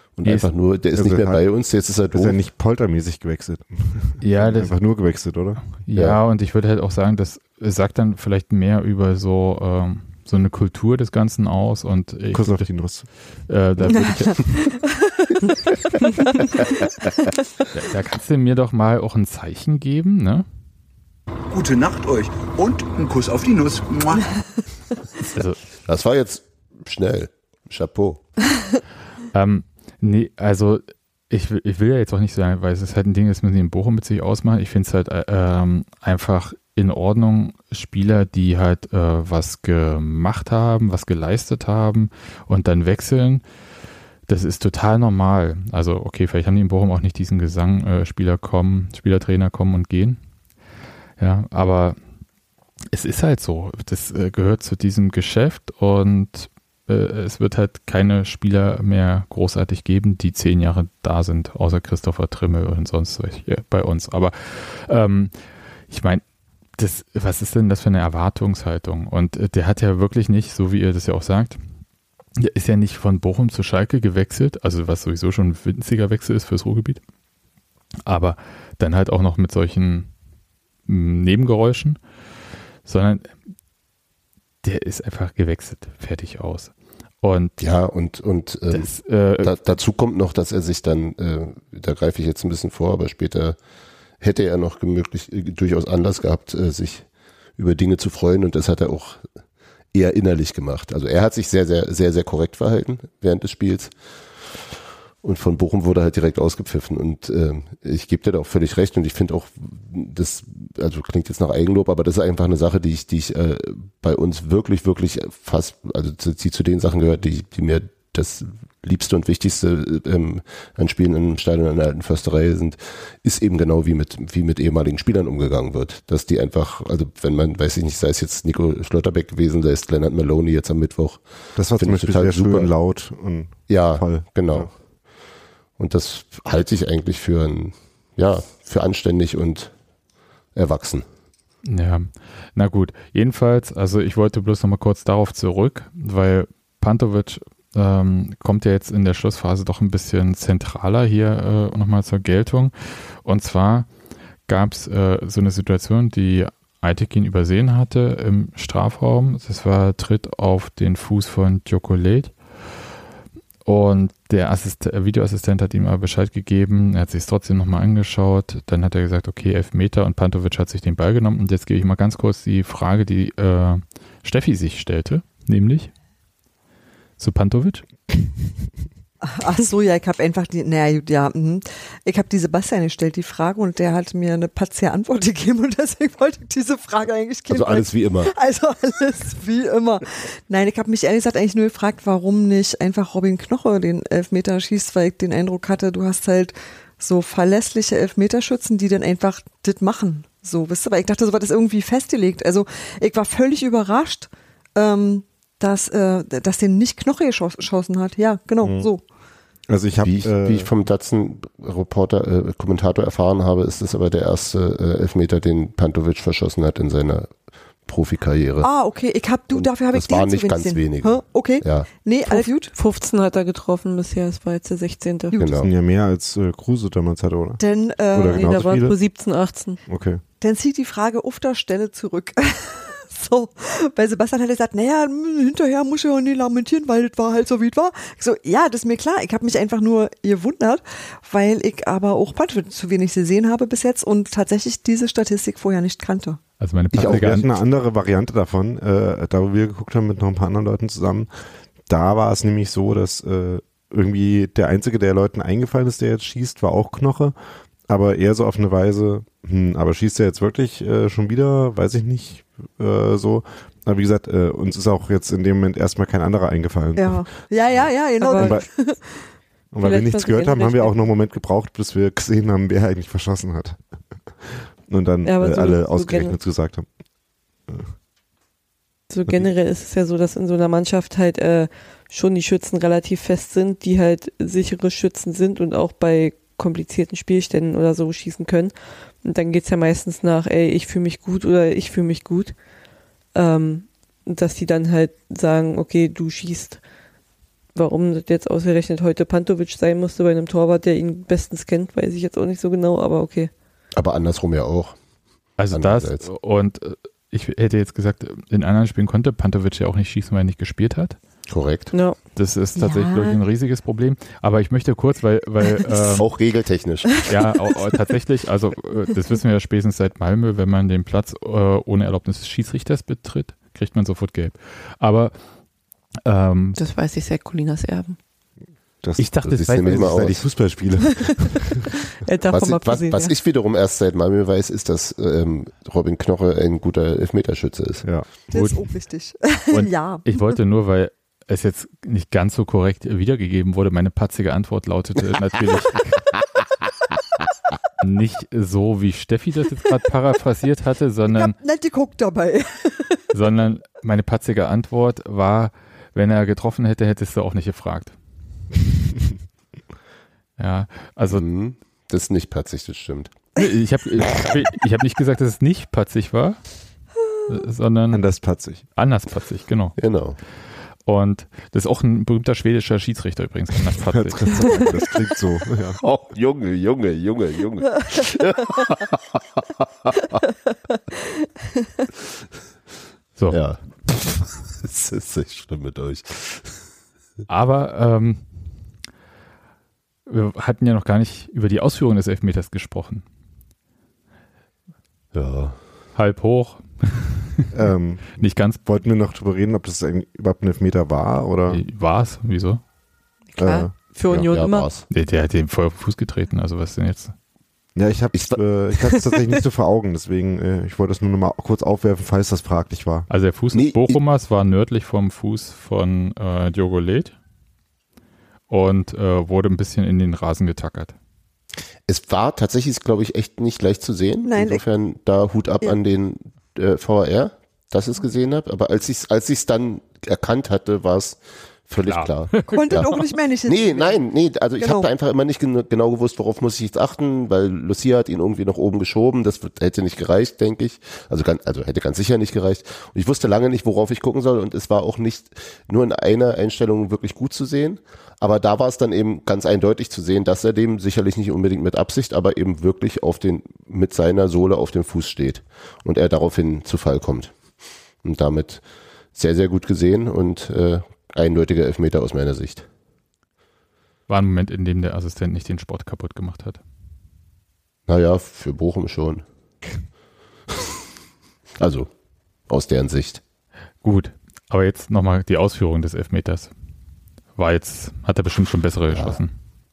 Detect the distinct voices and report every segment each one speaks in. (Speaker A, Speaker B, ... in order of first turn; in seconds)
Speaker A: 0.1-2.4, 5.9-6.2, 25.9-28.2, 87.6-93.6, 94.2-99.3, 99.9-104.7, 105.2-131.2, 131.8-132.7, 133.7-134.7, 135.8-139.7, 140.5-141.0, 187.5-188.3, 210.0-218.7, 219.5-221.9, 225.4-225.7, 246.9-247.4, 303.9-305.0, 305.7-306.2, 311.5-311.9, 316.0-317.3, 329.4-330.4, 332.5-338.0, 361.3-363.3, 370.0-370.4, 376.0-380.4, 383.5-386.8, 395.3-395.8, 404.3-405.1, 408.3-408.6, 413.7-414.2, 422.1-457.6, 458.2-458.8, 459.3-462.9, 468.1-469.4, 471.8-472.1, 472.7-473.4, 479.1-479.4
Speaker B: 0.2-0.5, 4.2-4.8, 5.8-12.8, 13.5-14.8, 17.7-20.4, 25.3-25.6, 29.3-43.4, 44.3-50.2, 51.2-52.0, 52.9-65.3, 65.9-66.2, 66.8-71.6, 72.4-77.0, 78.0-80.1, 80.8-82.0, 82.8-83.4, 84.6-87.6, 88.7-89.8, 141.6-153.9, 154.5-162.8, 163.6-175.9, 177.2-177.8, 246.6-247.6, 305.6-311.2, 312.3-316.3, 317.3-325.4, 326.2-326.8, 329.2-330.4, 338.5-338.9, 339.7-346.3, 348.0-351.5, 353.3-358.1, 360.6-361.4, 363.6-366.8, 367.4-368.2, 368.9-370.0, 371.0-375.0, 383.4-383.6, 387.5-388.4, 390.3-393.2, 396.1-397.4, 398.4-398.8, 401.7-402.8, 405.1-407.3, 413.3-417.4, 418.7-421.1, 432.0-433.2, 464.3-466.8, 474.0-476.7, 477.6-479.5
Speaker C: 0.9-1.5, 2.1-5.6, 12.3-13.1, 131.6-134.7, 208.6-208.9, 209.7-210.7, 225.6-227.6, 228.1-229.0, 229.9-230.2, 247.0-251.3, 251.9-257.3, 257.9-268.9, 269.7-273.8, 274.4-276.9, 329.0-331.8, 368.1-368.8, 374.1-376.0, 397.7-401.8, 403.6-403.9, 407.9-413.3
Speaker D: 13.9-14.9, 179.2-209.0, 218.6-222.7, 225.3-225.7, 227.6-228.7, 230.4-246.4, 266.9-269.3, 338.5-340.4, 351.3-353.2, 424.4-424.8, 432.6-434.2, 434.8-435.1
Speaker E: 21.5-24.4
Speaker F: 222.2-225.4, 228.3-229.8, 268.2-268.9, 269.8-270.9, 275.2-276.4, 279.1-292.6, 293.3-296.8, 297.7-303.5, 311.9-312.2, 326.8-328.2, 332.2-333.3, 403.5-404.9, 409.1-409.4